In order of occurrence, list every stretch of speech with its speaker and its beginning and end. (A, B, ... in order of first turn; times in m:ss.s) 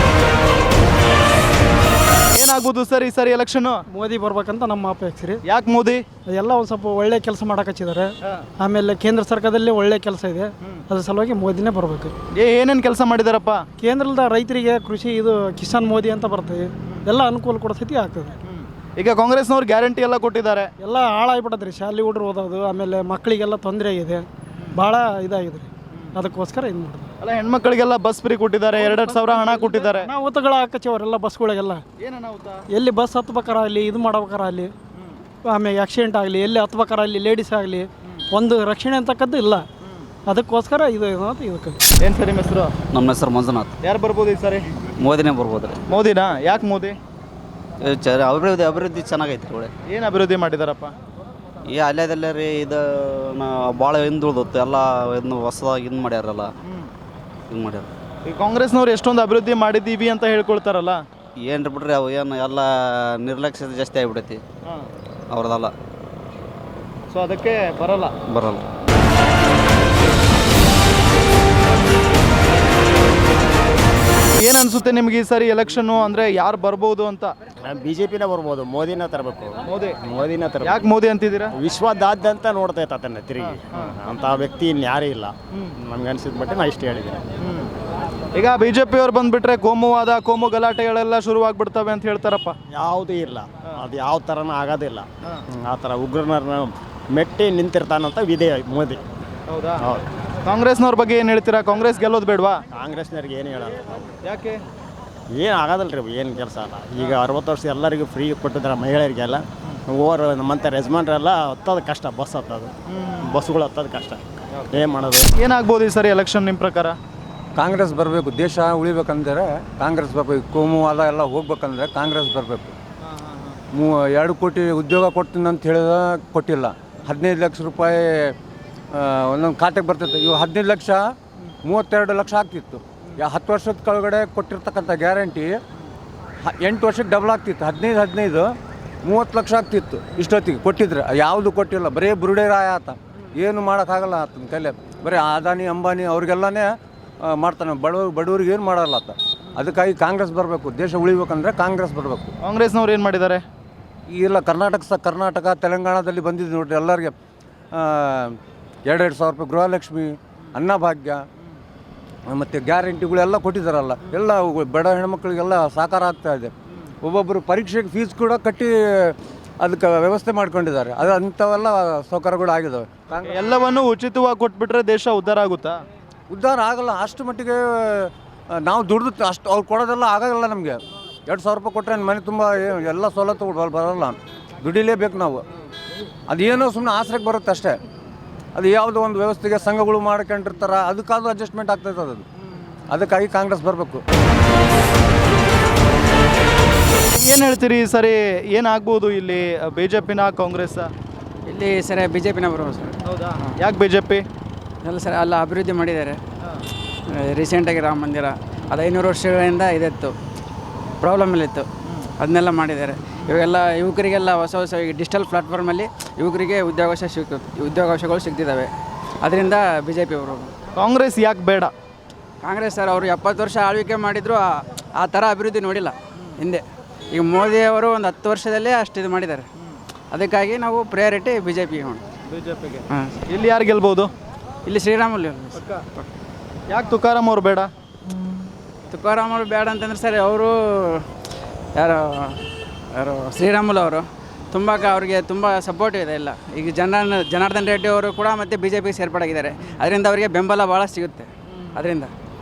0:02.3-0:03.8 A
0:03.9-0:05.4 B
0:05.5-0:06.0 A
0:06.3-0:12.1 B
0:12.3-0:13.6 A
0:13.8-0:18.3 B
0:18.5-0:20.7 A
0:20.8-0:27.1 B
0:27.2-0:30.1 A
0:28.8-0:31.8 B
0:32.0-0:32.6 A
0:32.7-0:34.7 B
0:35.5-0:39.6 B
0:40.3-0:41.8 B
0:42.0-0:42.7 A
0:42.9-0:43.7 C
0:43.8-0:44.6 A
0:45.0-0:45.8 C
0:45.9-0:47.0 A
0:47.8-0:49.7 C
0:49.9-0:50.9 A
0:51.6-0:56.5 C
0:57.5-0:57.9 C
0:58.2-1:01.0 A
1:01.4-1:04.4 C
1:05.3-1:05.7 C
1:07.1-1:08.1 A
1:08.3-1:08.6 C
1:14.4-1:17.3 A
1:17.6-1:20.9 D
1:19.7-1:19.9 A
1:20.6-1:21.5 A
1:21.5-1:27.2 D
1:27.4-1:27.7 A
1:28.3-1:32.5 A
1:32.7-1:39.0 D
1:39.5-1:39.8 A
1:39.8-1:40.0 D
1:40.4-1:42.6 A
1:42.7-1:44.1 D
1:44.2-1:44.6 A
1:45.3-1:55.3 D
1:55.4-1:57.0 A
1:57.6-2:02.7 E
2:03.0-2:03.5 A
2:03.8-2:08.0 E
2:08.9-2:11.0 E
2:11.7-2:15.5 E
2:16.4-2:18.5 E
2:19.0-2:26.7 E
2:27.3-2:32.3 E
2:32.4-2:33.4 A
2:34.1-2:37.1 E
2:37.8-2:38.3 E
2:38.8-2:40.1 E
2:40.6-2:41.2 E
2:42.3-2:46.5 E
2:47.0-2:48.7 E
2:49.6-2:53.4 E
2:53.2-2:55.8 A
2:56.3-2:58.1 E
2:58.6-3:05.4 E
3:06.3-3:07.8 E
3:08.6-3:12.2 E
3:12.9-3:14.0 E
3:17.2-3:20.9 A
3:21.5-3:23.5 F
3:23.0-3:24.2 A
3:24.8-3:26.2 F
3:27.1-3:30.2 F
3:31.0-3:31.7 F
3:32.2-3:40.5 F
3:40.7-3:41.7 A
3:42.4-3:49.4 F
3:50.1-3:52.0 F
3:52.3-3:54.1 A
3:52.9-3:53.2 F
3:54.6-3:56.0 F
3:55.5-3:55.8 A
3:56.7-3:57.7 A
3:58.9-4:01.0 F
4:01.7-4:02.4 F
4:02.9-4:12.1 F